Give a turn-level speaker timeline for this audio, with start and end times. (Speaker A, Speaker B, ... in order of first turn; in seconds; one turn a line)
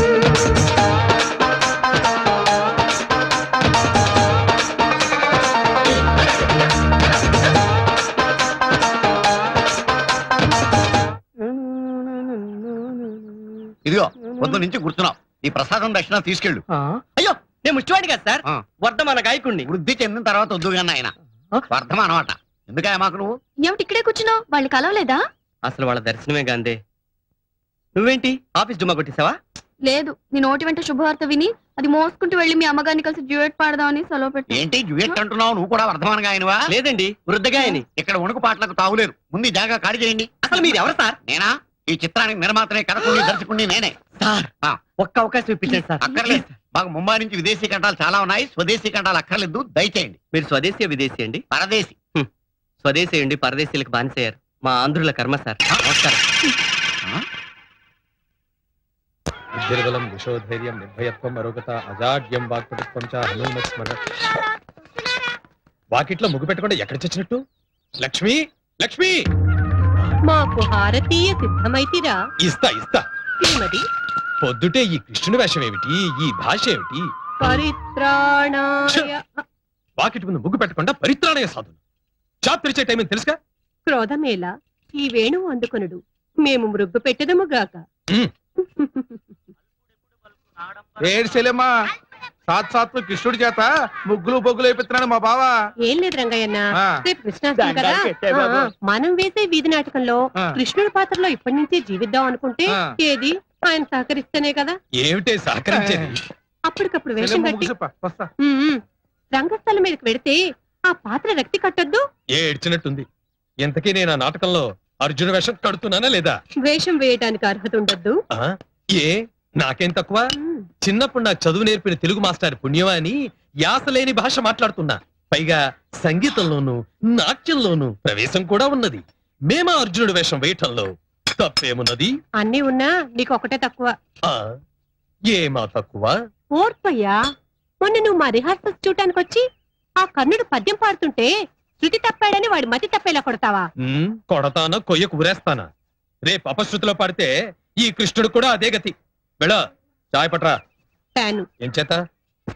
Speaker A: 13.8-16.6
Speaker B: 16.7-19.7
Speaker A: 19.6-21.1
Speaker A: 21.7-23.3
Speaker C: 23.6-25.2
Speaker B: 25.6-26.8
Speaker B: 27.9-29.4
Speaker C: 29.8-35.1
Speaker A: 34.5-36.6
Speaker B: 36.7-37.8
Speaker A: 37.9-40.3
Speaker B: 40.4-41.1
Speaker A: 41.2-44.0
Speaker B: 44.2-46.5
Speaker A: 46.0-50.2
Speaker B: 50.3-51.4
Speaker A: 51.5-52.0
Speaker B: 52.8-56.2
Speaker D: 59.5-64.0
Speaker D: 65.9-67.4
Speaker D: 68.0-69.1
Speaker E: 70.3-72.2
Speaker D: 72.4-73.0
Speaker E: 73.4-73.8
Speaker D: 74.4-77.1
Speaker E: 77.4-79.4
Speaker D: 80.0-81.8
Speaker D: 82.4-83.4
Speaker E: 83.8-87.8
Speaker E: 88.6-89.3
Speaker F: 91.0-91.7
Speaker F: 92.5-95.5
Speaker E: 95.8-104.8
Speaker D: 105.0-106.2
Speaker F: 105.7-106.0
Speaker E: 106.7-107.7
Speaker F: 107.2-108.3
Speaker E: 108.4-108.8
Speaker E: 109.3-112.0
Speaker D: 112.4-113.0
Speaker D: 113.6-116.3
Speaker E: 116.6-118.2
Speaker D: 118.4-120.2
Speaker E: 120.4-120.7
Speaker D: 120.8-123.1
Speaker D: 123.7-132.1
Speaker E: 132.4-133.9
Speaker D: 135.3-136.1
Speaker E: 136.6-137.2
Speaker E: 137.8-139.4
Speaker E: 140.0-143.7
Speaker D: 143.8-145.7
Speaker D: 146.2-147.3
Speaker D: 147.8-149.6
Speaker D: 150.1-150.5
Speaker E: 151.2-151.5
Speaker D: 151.6-151.9